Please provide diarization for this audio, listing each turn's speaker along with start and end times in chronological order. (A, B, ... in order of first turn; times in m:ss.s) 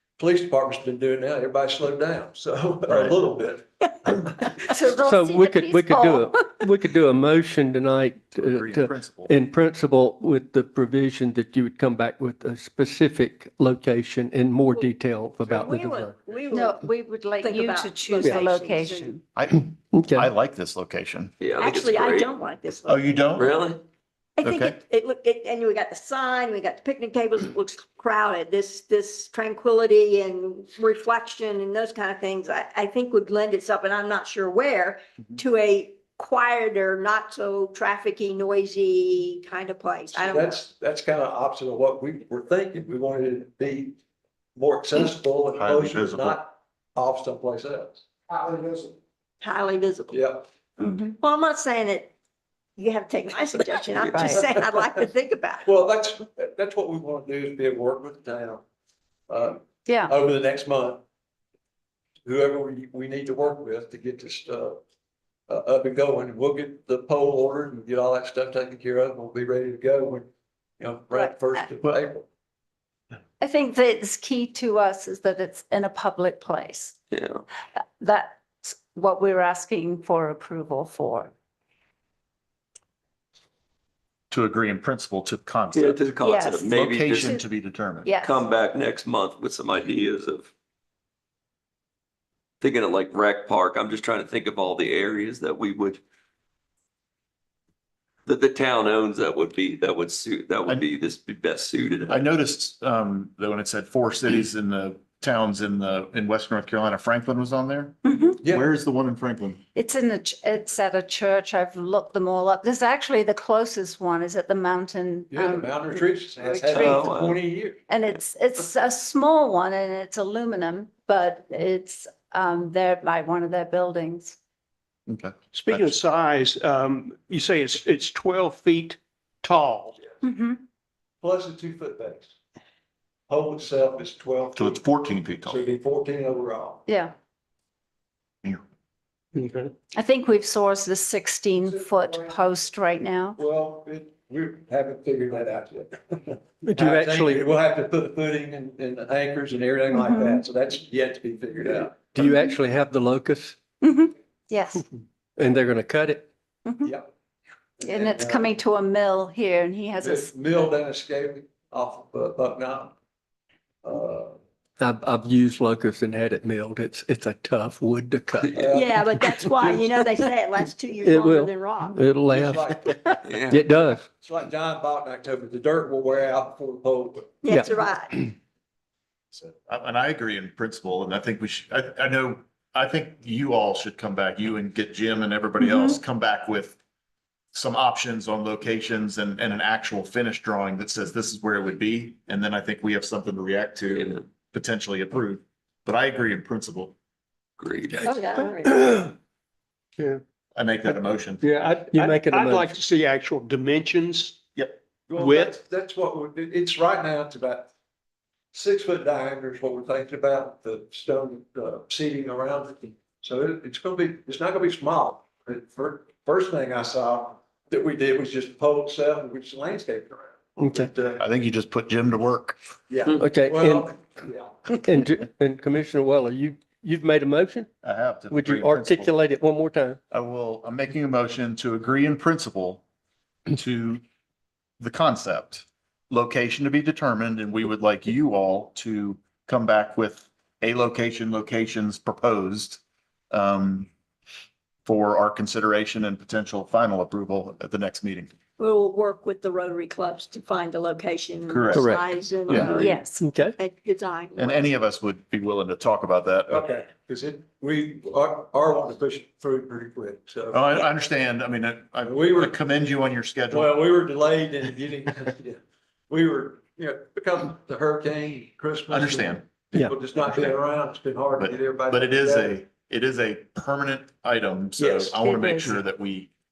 0:00.2-0:04.5 A
0:02.9-0:03.1 B
0:04.6-0:06.6 C
0:05.0-0:16.1 D
0:08.4-0:09.4 B
0:15.4-0:19.1 E
0:16.5-0:19.2 C
0:18.2-0:18.5 D
0:19.3-0:21.3 B
0:19.9-0:20.3 D
0:21.4-0:22.3 F
0:21.6-0:23.4 E
0:22.8-0:23.6 B
0:23.3-0:23.8 F
0:24.4-0:40.6 E
0:24.4-0:24.8 B
0:40.1-0:44.0 A
0:44.5-0:48.0 A
0:45.5-0:46.4 B
0:48.3-0:48.9 G
0:49.4-0:50.2 E
0:50.1-0:50.5 A
0:50.8-0:51.2 C
0:50.9-0:52.1 E
0:52.8-0:55.6 E
0:54.0-0:54.4 F
0:54.1-0:54.5 C
0:55.6-0:58.6 A
0:59.3-1:01.0 A
0:59.8-1:00.1 C
1:02.2-1:04.8 A
1:05.5-1:10.3 A
1:10.8-1:12.2 A
1:13.4-1:17.0 C
1:17.1-1:17.4 F
1:17.8-1:21.3 C
1:24.3-1:26.1 B
1:25.7-1:27.4 F
1:26.2-1:27.4 C
1:26.7-1:28.1 B
1:28.0-1:28.4 C
1:28.2-1:30.5 F
1:32.6-1:36.0 F
1:38.2-1:42.2 F
1:42.1-1:49.6 B
1:48.0-1:48.4 C
1:48.4-1:48.7 A
1:49.7-1:56.9 C
1:55.3-1:57.8 A
1:56.7-1:57.5 F
1:57.9-2:04.4 C
2:05.1-2:05.9 B
2:05.5-2:10.0 G
2:10.2-2:10.6 C
2:11.2-2:12.3 A
2:13.3-2:14.8 A
2:14.6-2:15.6 B
2:15.4-2:16.8 A
2:16.9-2:17.1 C
2:19.4-2:19.7 D
2:19.9-2:23.4 C
2:23.4-2:32.3 A
2:26.6-2:27.4 D
2:29.9-2:30.4 C
2:32.1-2:33.6 D
2:33.8-2:34.8 C
2:35.4-2:36.3 D
2:36.6-2:36.9 C
2:37.8-2:38.5 A
2:37.8-2:40.3 C
2:40.0-2:43.0 A
2:43.8-2:44.4 A
2:44.8-2:48.5 D
2:48.5-2:49.9 A
2:48.7-2:52.0 E
2:51.0-2:53.0 D
2:52.3-2:53.5 A
2:53.2-2:53.6 F
2:53.5-2:54.0 D
2:54.0-2:57.5 A
2:57.4-2:58.1 E
2:57.4-2:58.3 D
2:59.3-3:06.8 B
3:05.6-3:06.0 C
3:07.5-3:16.9 B
3:13.9-3:14.2 F
3:17.6-3:18.2 F
3:18.0-3:18.7 E
3:18.6-3:19.1 D
3:20.5-3:21.4 B
3:21.4-3:24.4 G
3:21.4-3:22.7 D
3:25.1-3:27.7 A
3:25.1-3:25.6 G
3:28.5-3:41.2 A
3:40.6-3:40.9 D
3:40.7-3:42.6 B
3:42.9-3:44.7 A
3:43.1-3:43.9 D
3:44.7-3:47.7 D
3:47.8-3:49.1 B
3:48.3-3:50.0 D
3:50.1-3:52.8 B
3:53.5-3:54.0 B
3:54.8-4:03.9 B
4:04.8-4:08.3 B
4:08.6-4:14.7 E
4:11.5-4:11.9 B
4:11.7-4:12.0 D
4:12.5-4:12.8 B
4:12.7-4:13.2 C
4:13.2-4:13.6 D
4:14.3-4:16.7 B
4:16.5-4:20.7 A
4:20.5-4:23.7 B
4:22.0-4:22.6 A
4:23.5-4:32.6 A
4:28.9-4:29.6 B
4:31.4-4:36.3 B
4:35.1-4:35.8 C